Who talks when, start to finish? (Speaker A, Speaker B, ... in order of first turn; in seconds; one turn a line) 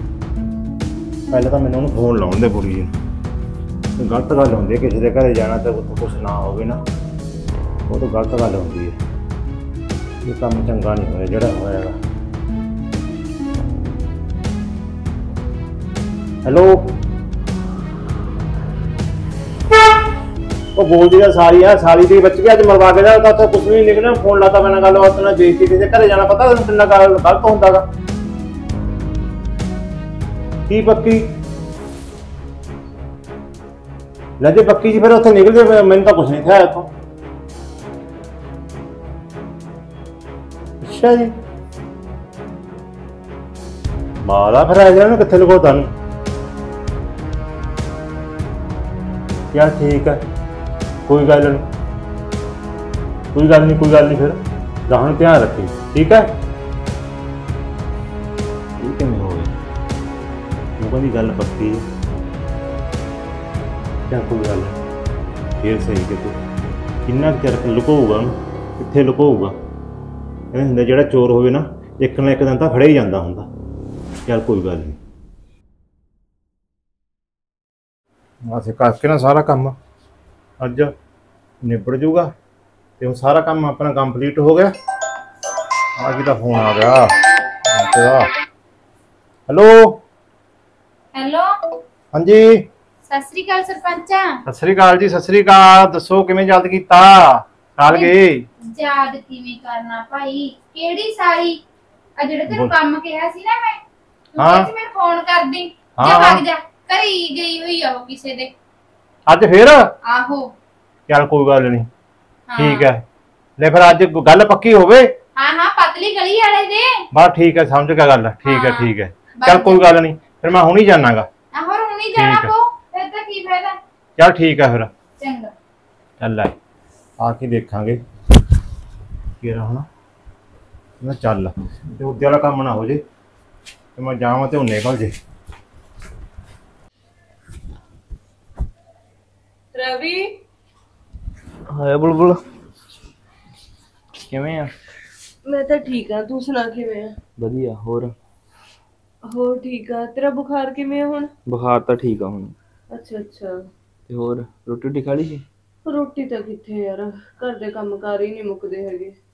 Speaker A: 1.3-3.0
Speaker A: 4.0-6.8
Speaker A: 7.9-9.0
Speaker A: 10.2-12.0
Speaker A: 16.4-17.0
Speaker A: 20.8-27.9
Speaker A: 30.7-31.3
Speaker A: 34.4-36.9
Speaker A: 40.8-41.3
Speaker A: 44.2-45.9
Speaker A: 49.5-50.2
Speaker A: 51.1-51.7
Speaker A: 53.3-56.4
Speaker A: 58.8-59.5
Speaker A: 60.8-61.9
Speaker A: 64.1-64.8
Speaker A: 65.6-66.4
Speaker A: 67.1-69.6
Speaker A: 70.5-73.5
Speaker A: 74.3-75.0
Speaker A: 78.5-79.8
Speaker A: 80.6-80.9
Speaker A: 81.6-82.3
Speaker A: 83.0-84.7
Speaker A: 86.0-88.3
Speaker A: 89.5-90.0
Speaker B: 91.1-91.5
Speaker A: 92.1-92.7
Speaker B: 93.1-94.4
Speaker A: 94.5-98.4
Speaker B: 98.7-101.6
Speaker B: 102.2-103.8
Speaker A: 102.5-102.8
Speaker B: 104.3-108.5
Speaker A: 104.4-104.7
Speaker A: 106.0-106.4
Speaker A: 109.3-109.8
Speaker B: 110.0-110.5
Speaker A: 111.1-111.9
Speaker B: 112.5-112.9
Speaker A: 112.6-113.0
Speaker A: 113.6-115.1
Speaker B: 115.4-117.0
Speaker A: 117.1-121.3
Speaker B: 118.5-119.8
Speaker B: 121.5-123.8
Speaker A: 122.1-122.5
Speaker A: 124.2-124.9
Speaker B: 125.2-125.5
Speaker A: 126.2-126.5
Speaker A: 127.2-128.0
Speaker A: 129.4-129.9
Speaker A: 131.0-133.0
Speaker A: 134.0-135.1
Speaker C: 139.7-140.3
Speaker D: 141.7-142.4
Speaker D: 144.2-144.7
Speaker C: 145.5-147.2
Speaker D: 147.4-148.1
Speaker C: 149.3-151.3
Speaker D: 151.5-152.5
Speaker C: 152.9-153.6
Speaker D: 154.1-155.4
Speaker C: 155.9-159.2